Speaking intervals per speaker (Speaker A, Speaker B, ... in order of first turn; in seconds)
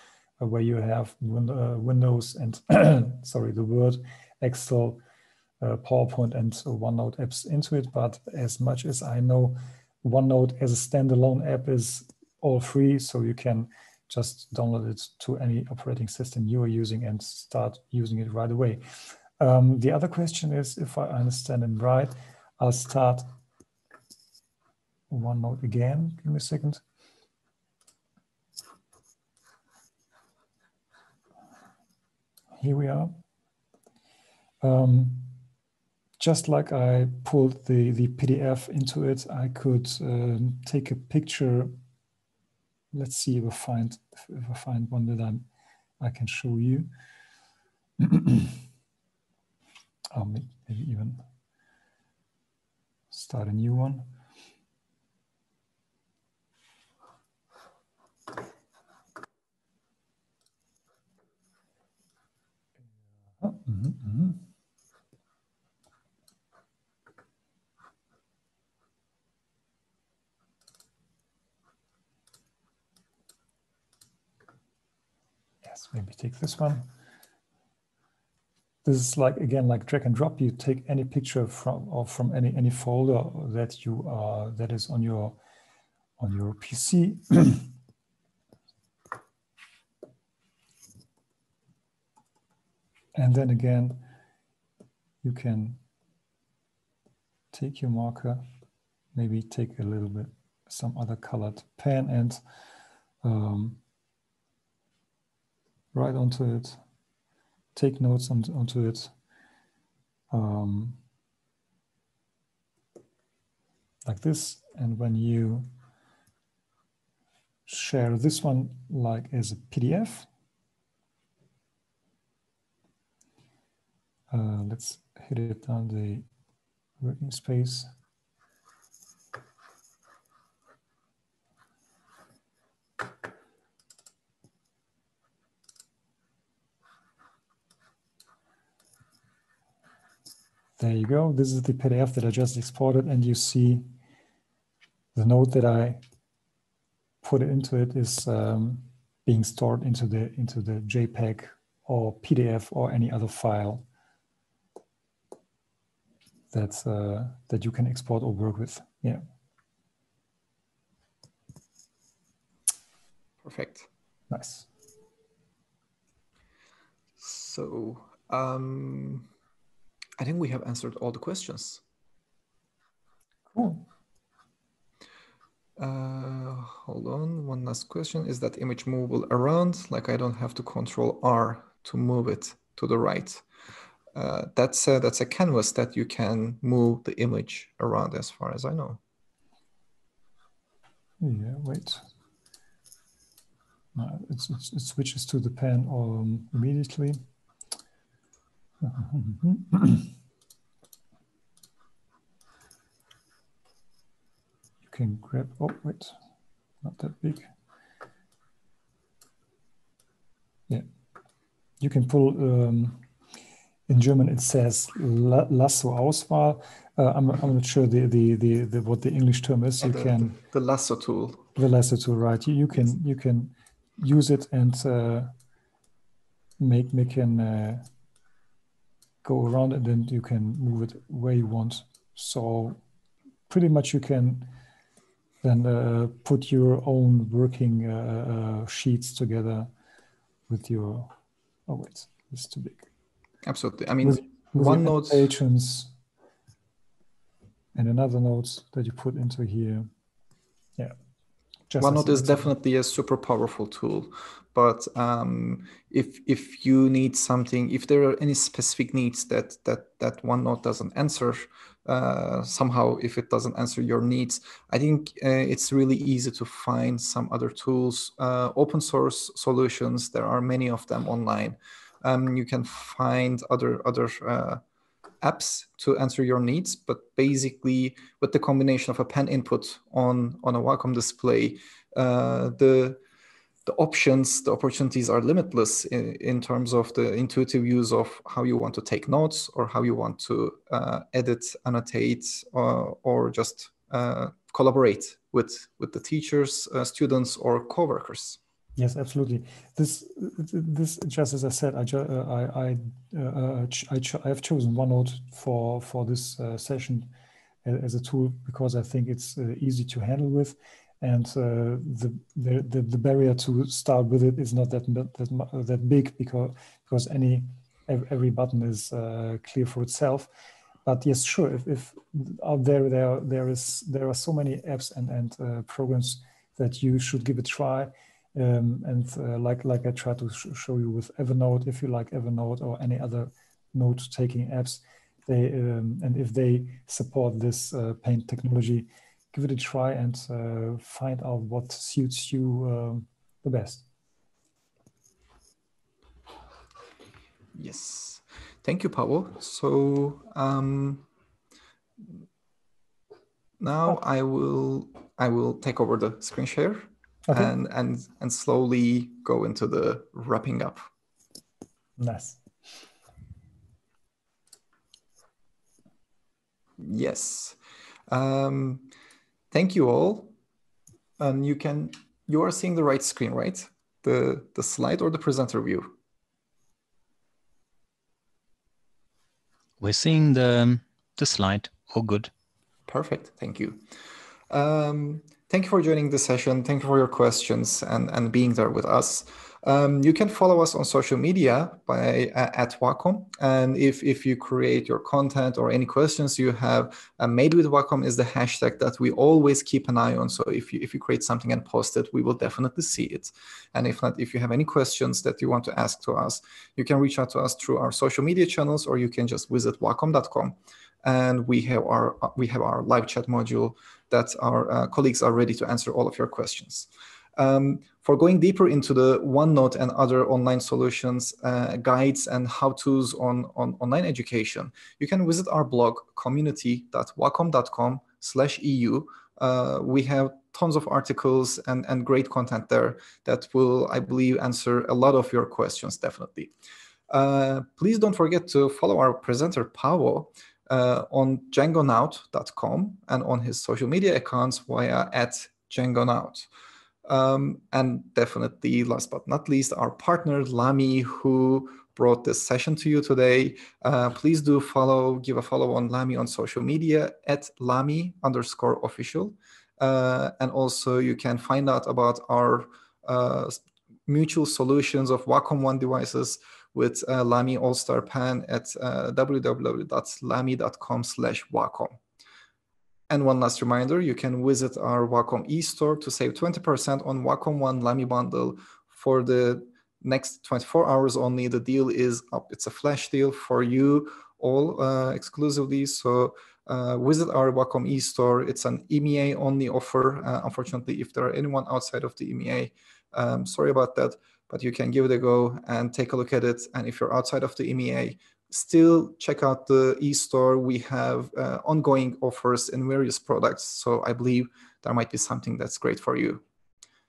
Speaker A: 0.4-5.0, 5.6-23.2, 25.1-26.8, 32.6-33.1, 34.6-35.4, 36.2-41.8, 42.9-45.4, 46.0-46.9, 48.0-48.6, 50.1-51.2, 53.1-54.1, 63.4-64.4, 75.6-76.9, 78.8-85.4, 86.2-87.7, 93.1-94.0, 95.2-95.8, 97.5-98.4, 99.1-102.4, 103.2-103.8, 105.9-106.8, 107.7-109.1, 110.3-111.0, 114.0-115.7, 117.7-120.3, 124.3-126.2, 127.0-127.9, 140.8-143.8, 145.1-146.0, 147.2-153.8, 156.5-159.2, 164.3-164.7, 173.5-173.9, 191.2-192.0, 193.9-197.2, 198.8-200.1, 204.8-206.2, 206.8-207.5, 211.8-213.0, 213.9-220.4, 221.5-225.3, 226.6-227.8, 229.2-232.8, 233.5-234.5, 235.4-239.7, 240.5-241.1, 241.7-242.8, 244.0-245.9, 247.7-249.9, 251.7-252.5, 298.8-307.1, 307.6-320.3, 320.8-343.8, 357.3-357.5, 362.0-362.4
Speaker B: 163.4-163.9, 167.2-169.3, 170.2-171.8, 175.8-183.4, 184.1-189.0, 219.8-221.4, 243.4-245.2, 251.8-274.6, 275.2-283.0, 283.6-298.4, 347.5-351.1, 353.6-360.9, 366.8-368.9, 369.5-370.3, 371.2-375.9, 382.9-383.8, 384.5-436.5, 437.1-446.5, 447.1-472.0, 473.1-506.4
Speaker C: 379.8-382.3